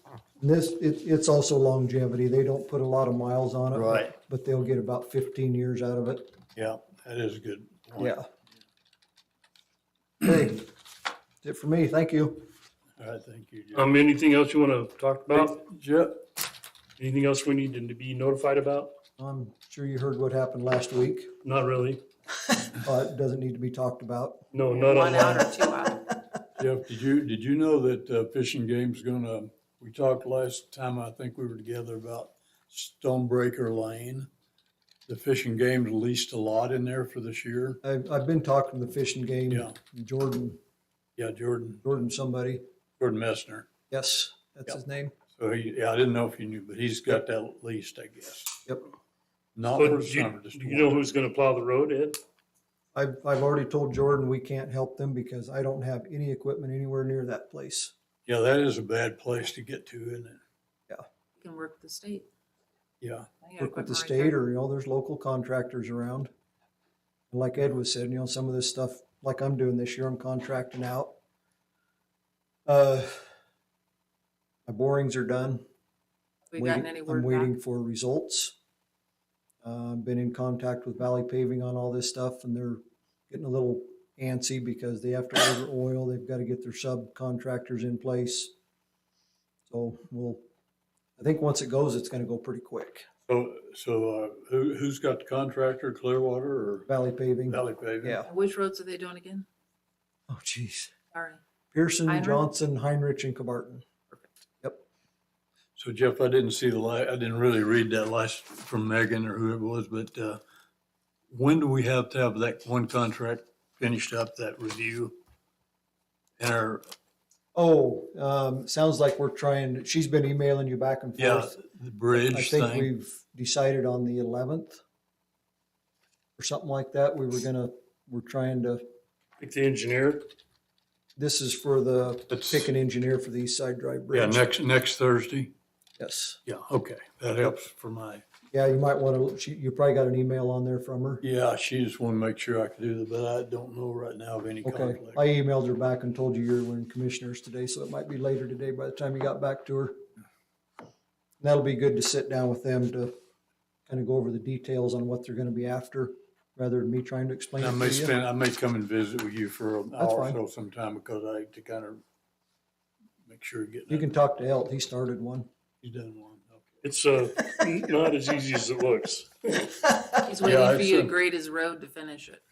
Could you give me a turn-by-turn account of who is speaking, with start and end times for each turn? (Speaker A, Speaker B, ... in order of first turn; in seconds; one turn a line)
Speaker A: 0.4-6.3
Speaker B: 3.7-4.1
Speaker B: 6.6-8.1
Speaker A: 8.0-8.3
Speaker A: 10.2-10.7
Speaker A: 11.4-12.5
Speaker B: 13.0-13.9
Speaker C: 13.8-15.6
Speaker B: 15.3-16.2
Speaker C: 17.0-18.9
Speaker A: 19.2-21.4
Speaker C: 21.4-22.0
Speaker A: 22.7-24.4
Speaker C: 24.5-25.5
Speaker D: 24.7-26.1
Speaker B: 26.6-34.3
Speaker B: 35.1-37.8
Speaker A: 37.8-40.6
Speaker B: 41.2-41.8
Speaker A: 41.8-42.6
Speaker B: 43.0-43.7
Speaker A: 43.9-45.1
Speaker B: 45.4-48.6
Speaker B: 49.5-51.0
Speaker C: 49.8-52.2
Speaker A: 53.0-57.9
Speaker B: 58.3-60.4
Speaker D: 61.4-62.3
Speaker B: 63.0-63.3
Speaker D: 63.4-64.4
Speaker A: 63.6-66.3
Speaker A: 67.3-71.1
Speaker A: 72.7-73.2
Speaker A: 74.7-75.6
Speaker D: 76.5-77.5
Speaker A: 76.6-78.6
Speaker A: 79.6-88.5
Speaker A: 89.7-90.4
Speaker A: 91.2-93.1
Speaker B: 93.3-96.9
Speaker A: 96.9-98.3
Speaker B: 97.5-98.2
Speaker D: 98.2-99.5
Speaker A: 100.3-100.9
Speaker D: 101.1-101.4
Speaker A: 101.7-103.8
Speaker D: 102.1-102.5
Speaker B: 105.8-110.4
Speaker B: 111.3-115.2
Speaker B: 116.4-116.9
Speaker A: 117.5-121.6
Speaker B: 121.2-122.9
Speaker A: 122.1-124.8
Speaker A: 126.4-128.8
Speaker C: 129.4-130.3
Speaker A: 131.2-134.4
Speaker B: 132.3-132.7
Speaker B: 134.1-135.5
Speaker A: 136.0-136.4
Speaker B: 136.5-138.2
Speaker A: 138.5-141.2
Speaker B: 141.2-145.2
Speaker A: 144.6-150.0
Speaker A: 151.4-153.1
Speaker A: 153.9-158.2
Speaker B: 157.6-162.0
Speaker A: 160.0-160.4
Speaker B: 163.2-164.1
Speaker A: 163.9-165.5
Speaker B: 165.8-166.8
Speaker C: 166.8-169.7
Speaker D: 170.2-172.4
Speaker B: 170.4-171.1